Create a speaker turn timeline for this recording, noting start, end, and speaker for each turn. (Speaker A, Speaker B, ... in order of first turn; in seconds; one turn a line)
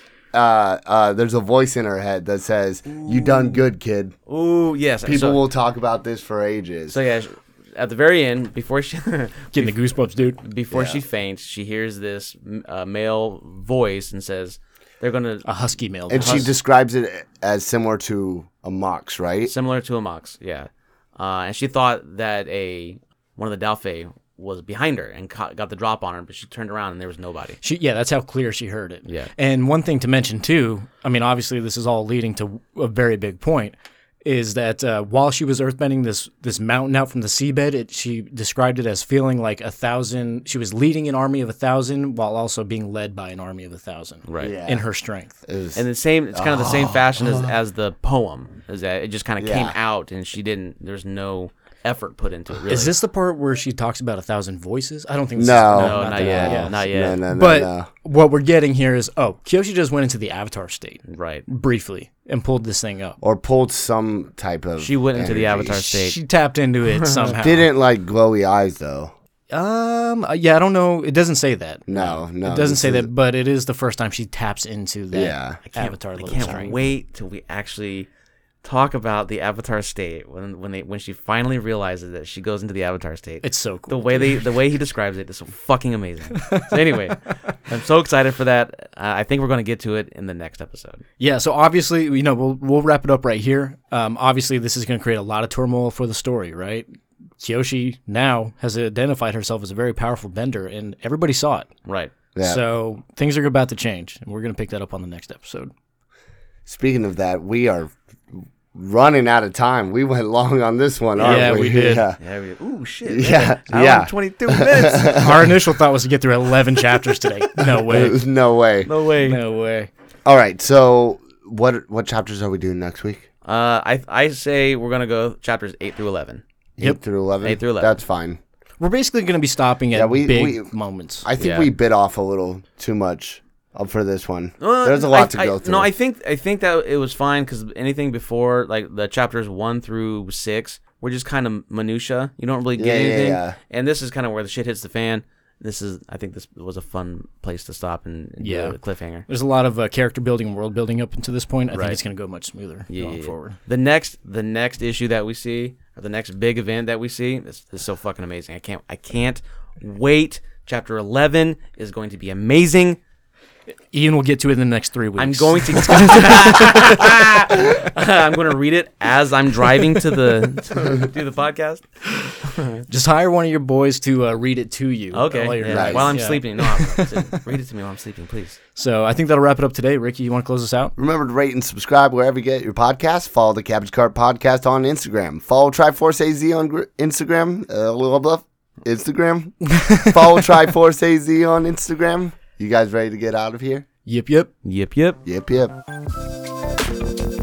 Speaker A: 0.3-4.2
Speaker B: 2.9-3.6
Speaker B: 4.3-5.4
Speaker A: 5.0-7.0
Speaker B: 6.9-9.7
Speaker C: 9.5-10.4
Speaker B: 10.4-15.5
Speaker A: 10.7-11.0
Speaker C: 15.4-16.5
Speaker A: 16.1-19.5
Speaker B: 16.2-16.4
Speaker B: 19.5-27.6
Speaker C: 27.6-45.4
Speaker B: 29.0-29.3
Speaker B: 44.3-44.5
Speaker A: 44.4-44.9
Speaker A: 45.5-47.5
Speaker B: 45.7-52.9
Speaker A: 49.4-49.8
Speaker C: 52.7-63.2
Speaker A: 55.4-57.9
Speaker B: 55.7-57.2
Speaker B: 61.1-61.4
Speaker A: 63.2-65.7
Speaker B: 64.8-66.2
Speaker C: 65.7-67.7
Speaker B: 67.0-67.3
Speaker A: 67.4-69.1
Speaker C: 69.5-71.8
Speaker A: 71.9-73.1
Speaker B: 71.9-72.2
Speaker C: 72.4-76.9
Speaker A: 75.1-75.6
Speaker B: 75.7-78.1
Speaker B: 78.6-91.0
Speaker C: 83.4-84.4
Speaker C: 86.3-87.2
Speaker C: 91.2-96.9
Speaker C: 97.4-101.7
Speaker B: 101.8-102.1
Speaker A: 102.3-102.6
Speaker C: 102.4-105.7
Speaker A: 106.7-112.2
Speaker B: 111.2-111.6
Speaker C: 111.2-112.0
Speaker B: 112.2-115.3
Speaker A: 113.0-115.4
Speaker C: 115.1-118.2
Speaker A: 117.6-118.9
Speaker B: 118.8-119.4
Speaker C: 119.1-119.9
Speaker A: 120.2-123.3
Speaker B: 123.4-126.4
Speaker A: 126.8-128.4
Speaker B: 127.4-127.9
Speaker C: 128.8-131.3
Speaker A: 129.9-130.7
Speaker A: 131.2-135.9
Speaker B: 131.4-131.7
Speaker B: 134.6-149.2
Speaker A: 142.8-143.6
Speaker C: 148.4-153.6
Speaker B: 151.7-152.0
Speaker B: 152.9-163.0
Speaker C: 163.9-167.3
Speaker B: 165.2-171.8
Speaker B: 172.4-172.8
Speaker C: 172.9-177.4
Speaker B: 175.1-178.6
Speaker A: 175.7-176.1
Speaker C: 178.8-180.9
Speaker A: 181.0-193.8
Speaker C: 189.7-190.4
Speaker C: 194.1-194.5
Speaker B: 194.6-195.2
Speaker A: 195.2-195.7